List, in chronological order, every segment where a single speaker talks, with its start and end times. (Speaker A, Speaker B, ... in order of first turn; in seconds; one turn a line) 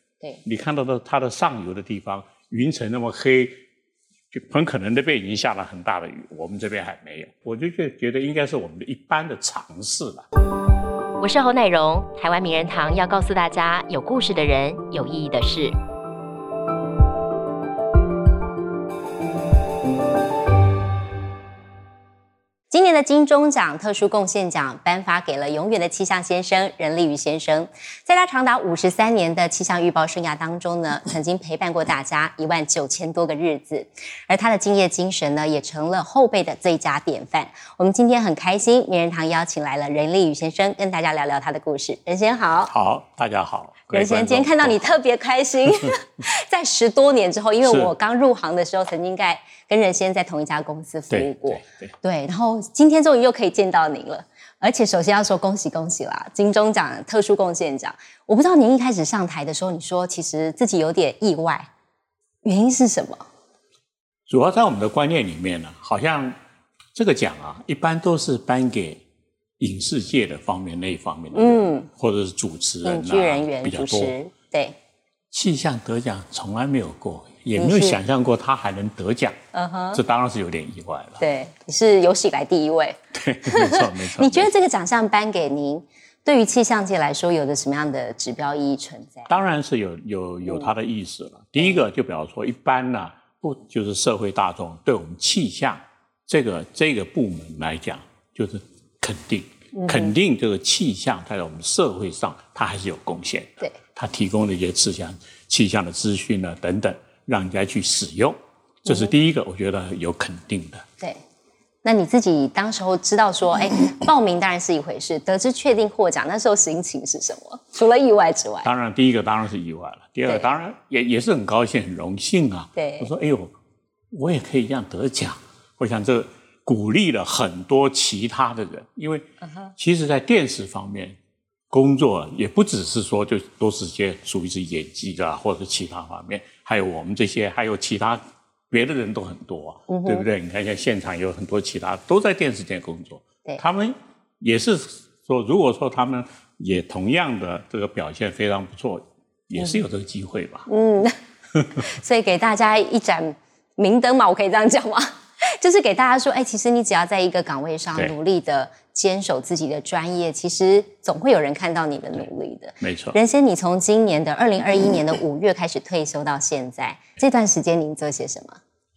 Speaker A: 0.4-3.6
Speaker A: 4.3-10.3
Speaker B: 11.2-15.8
Speaker C: 22.7-42.7
Speaker A: 42.7-45.0
Speaker C: 43.9-61.7
Speaker A: 47.6-47.9
Speaker A: 51.1-51.9
Speaker C: 62.4-63.3
Speaker A: 64.3-66.4
Speaker A: 67.0-69.0
Speaker A: 69.6-74.2
Speaker C: 71.3-71.9
Speaker C: 72.8-74.8
Speaker A: 75.3-79.4
Speaker C: 77.6-78.0
Speaker C: 79.5-80.0
Speaker A: 79.9-81.2
Speaker C: 81.2-89.3
Speaker A: 83.1-84.5
Speaker A: 89.3-110.8
Speaker C: 99.8-100.1
Speaker C: 108.9-109.1
Speaker C: 111.8-118.7
Speaker A: 118.6-123.5
Speaker C: 120.3-120.5
Speaker C: 122.8-123.1
Speaker A: 124.1-131.2
Speaker C: 129.4-129.7
Speaker A: 131.7-150.7
Speaker C: 139.9-140.3
Speaker C: 149.6-149.8
Speaker C: 150.7-151.2
Speaker C: 151.8-168.6
Speaker A: 162.8-163.2